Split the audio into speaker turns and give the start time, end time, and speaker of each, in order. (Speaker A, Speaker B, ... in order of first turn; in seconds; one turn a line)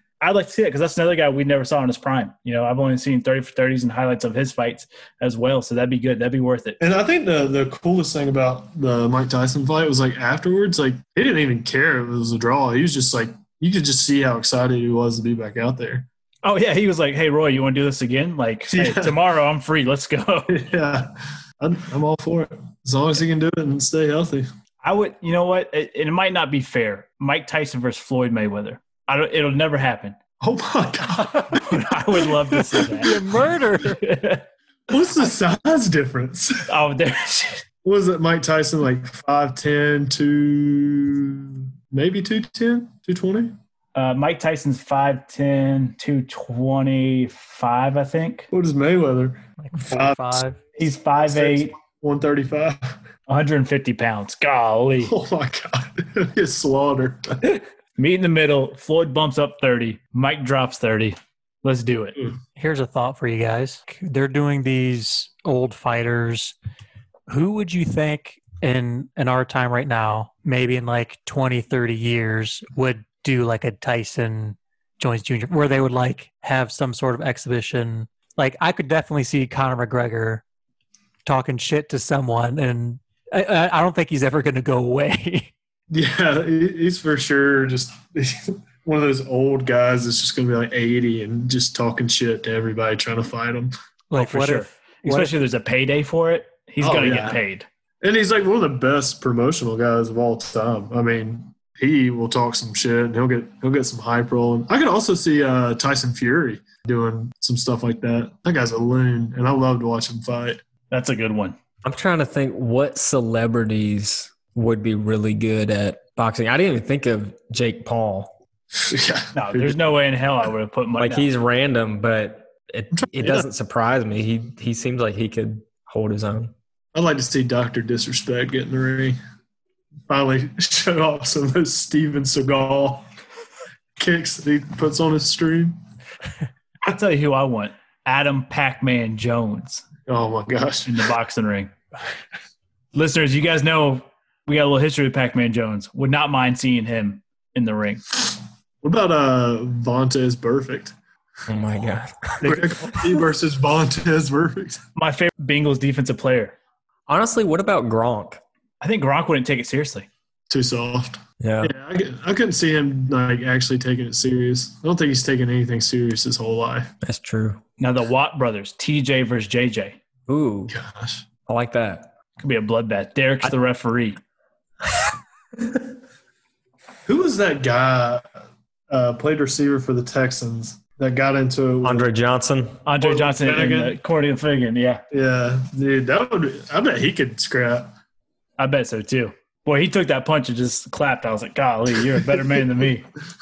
Speaker A: 0.2-6.8
Speaker B: 6.8-16.1
Speaker A: 16.4-20.5
Speaker B: 18.7-19.1
Speaker B: 20.5-24.5
Speaker A: 24.8-30.2
Speaker B: 30.4-33.1
Speaker A: 31.3-33.1
Speaker C: 33.0-34.0
Speaker A: 33.8-34.4
Speaker B: 34.9-36.7
Speaker A: 36.7-37.6
Speaker B: 37.8-43.5
Speaker A: 43.9-48.5
Speaker B: 48.5-50.4
Speaker C: 49.6-50.6
Speaker A: 50.8-51.7
Speaker B: 51.1-53.0
Speaker A: 53.3-55.1
Speaker B: 55.0-57.6
Speaker A: 58.0-62.2
Speaker C: 62.5-66.5
Speaker C: 67.3-80.4
Speaker C: 81.2-85.5
Speaker B: 85.9-93.7
Speaker C: 94.1-95.3
Speaker A: 94.1-97.7
Speaker B: 96.8-97.4
Speaker B: 98.0-110.6
Speaker A: 110.9-111.6
Speaker D: 111.8-118.3
Speaker B: 118.8-119.8
Speaker A: 119.3-121.3
Speaker D: 121.0-126.5
Speaker B: 123.0-123.5
Speaker B: 126.9-129.2
Speaker B: 130.1-133.0
Speaker B: 134.0-135.8
Speaker A: 136.8-139.8
Speaker B: 140.1-141.1
Speaker A: 140.8-141.7
Speaker A: 142.9-148.0
Speaker B: 148.8-150.9
Speaker D: 151.5-152.6
Speaker B: 152.4-154.8
Speaker A: 154.9-156.6
Speaker D: 157.1-158.4
Speaker A: 158.8-160.1
Speaker B: 160.5-166.9
Speaker D: 161.4-161.7
Speaker D: 167.0-167.6
Speaker A: 167.8-170.0
Speaker D: 170.3-170.7
Speaker B: 170.7-171.2
Speaker D: 171.5-172.1
Speaker A: 172.4-174.2
Speaker B: 177.1-178.2
Speaker B: 178.9-182.1
Speaker D: 181.8-182.8
Speaker A: 182.8-185.0
Speaker B: 183.0-183.9
Speaker B: 185.1-187.9
Speaker A: 188.6-193.1